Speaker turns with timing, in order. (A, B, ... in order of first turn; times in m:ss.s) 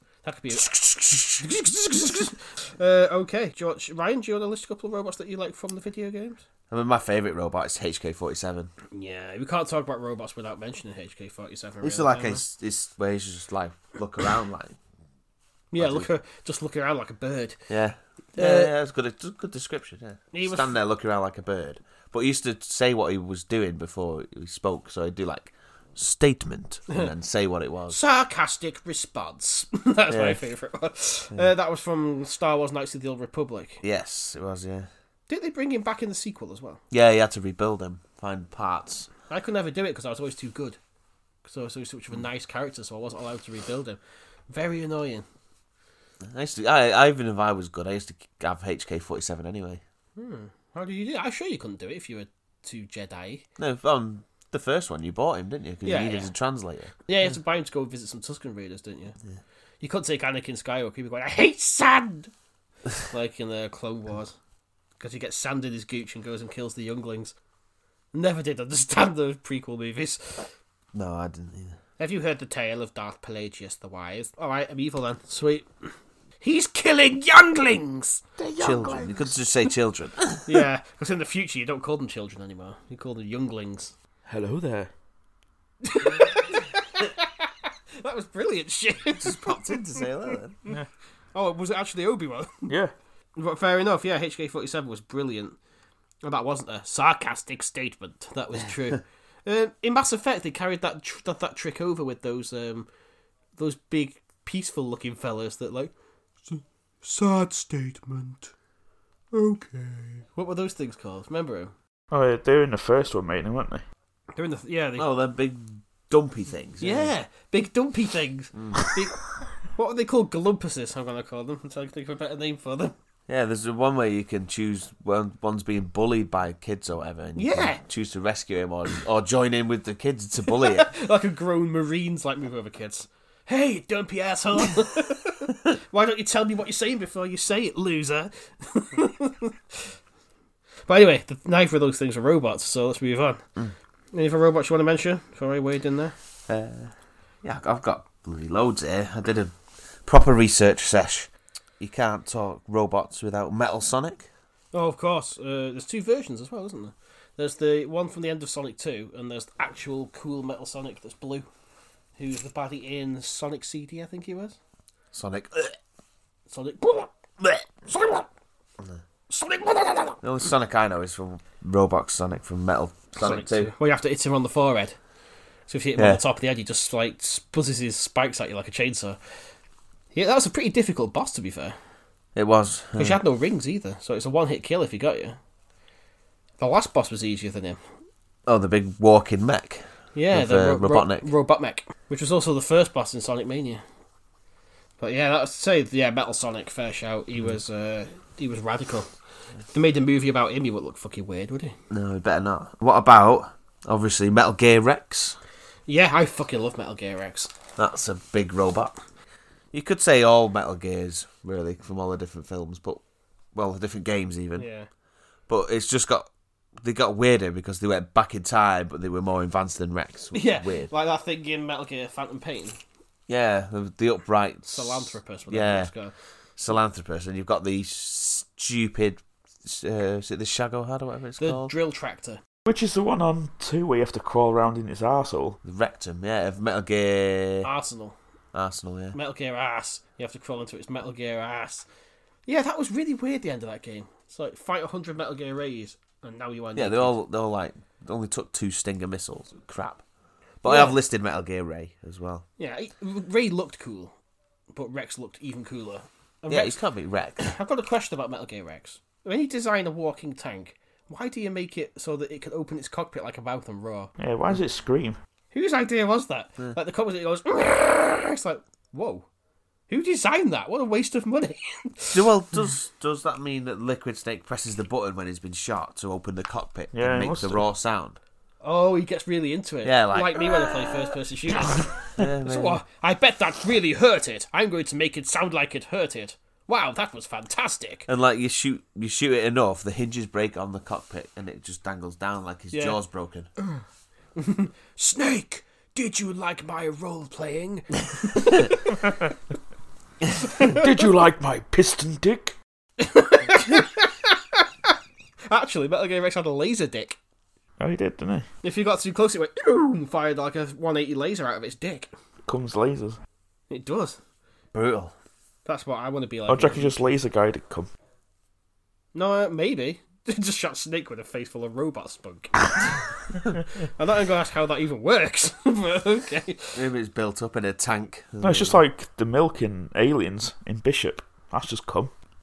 0:00.2-0:06.4 A
0:06.7-0:08.7 B
0:08.9-0:12.4 A
0:11.8-0:14.8 B
0:15.7-0:17.6 A
0:15.8-0:16.1 B
0:17.7-0:28.0 B
0:18.4-0:18.7 A
0:20.3-0:20.8 A
0:27.9-0:33.8 A
0:30.1-0:30.4 B
0:33.8-0:34.9 B
0:35.3-0:36.8 A
0:36.9-0:39.1 B
0:39.3-0:40.8 A
0:41.4-0:45.2 A
0:46.2-0:49.8 B
0:50.2-0:53.4 A
0:53.6-0:56.9 B
0:55.8-0:56.3 A
0:57.1-0:59.2 A
0:59.8-1:02.3 A
1:03.0-1:04.4 A
1:05.0-1:07.3 A
1:08.1-1:10.5 A
1:10.9-1:11.8 B
1:12.0-1:18.2 A
1:18.4-1:19.3 C
1:18.6-1:20.6 B
1:20.4-1:24.0 A
1:24.3-1:24.9 C
1:25.8-1:30.3 A
1:29.2-1:30.6 B
1:31.3-1:32.7 A
1:32.7-1:32.9 C
1:33.4-1:35.6 A
1:36.2-1:42.9 A
1:43.6-1:45.9 A
1:46.5-1:48.5 A
1:49.3-1:51.7 A
1:52.1-1:53.8 C
1:54.3-1:55.1 A
1:55.0-1:57.1 B
1:56.8-2:02.9 A
1:58.5-1:58.9 B
2:03.3-2:10.9 B
2:07.4-2:07.8 A
2:10.5-2:19.9 A
2:20.9-2:23.4 A
2:24.1-2:26.2 A
2:26.5-2:29.5 B
2:30.0-2:34.3 B
2:34.7-2:41.5 A
2:42.2-2:44.6 A
2:45.1-2:45.8 B
2:46.5-2:48.3 A
2:49.3-2:50.2 A
2:50.2-2:53.7 B
2:53.2-2:55.0 A
2:55.7-2:59.2 A
2:56.0-2:56.2 B
3:00.1-3:01.8 A
3:02.4-3:03.2 B
3:03.0-3:05.4 A
3:06.6-3:07.8 A
3:08.5-3:11.3 B
3:10.2-3:13.8 A
3:15.0-3:19.1 A
3:19.7-3:21.8 A
3:21.9-3:25.4 B
3:25.9-3:27.5 A
3:27.8-3:29.0 B
3:29.7-3:33.0 B
3:33.6-3:34.7 B
3:34.6-3:34.9 A
3:35.5-3:36.3 B
3:36.8-3:40.9 B
3:40.3-3:42.8 A
3:43.3-3:45.9 B
3:44.7-3:46.1 A
3:46.6-3:51.7 B
3:51.4-3:52.4 A
3:52.7-3:55.6 C
3:55.6-3:57.7 B
3:57.6-3:58.2 A
3:58.5-3:59.2 B
3:59.1-4:01.9 A
4:02.5-4:07.2 A
4:06.8-4:10.0 B
4:10.6-4:12.4 B
4:10.6-4:11.0 A
4:12.6-4:14.2 A
4:14.7-4:16.8 A
4:16.5-4:17.5 B
4:17.4-4:24.1 A
4:24.2-4:25.2 C
4:25.5-4:29.3 A
4:29.9-4:32.2 A
4:32.1-4:38.2 B
4:36.9-4:37.6 C
4:38.6-4:48.1 A
4:39.8-4:40.7 B
4:42.2-4:42.8 B
4:48.1-4:53.5 B
4:52.7-4:53.0 A
4:54.4-4:59.2 A
5:00.6-5:02.6 C
5:03.0-5:04.6 A
5:05.5-5:07.2 A
5:07.8-5:08.5 C
5:08.6-5:12.1 A
5:12.4-5:13.2 C
5:13.7-5:14.2 A
5:14.7-5:15.1 B
5:15.7-5:17.1 A
5:16.5-5:17.9 C
5:19.1-5:23.0 A
5:23.8-5:26.8 A
5:26.8-5:28.8 B
5:28.4-5:32.1 C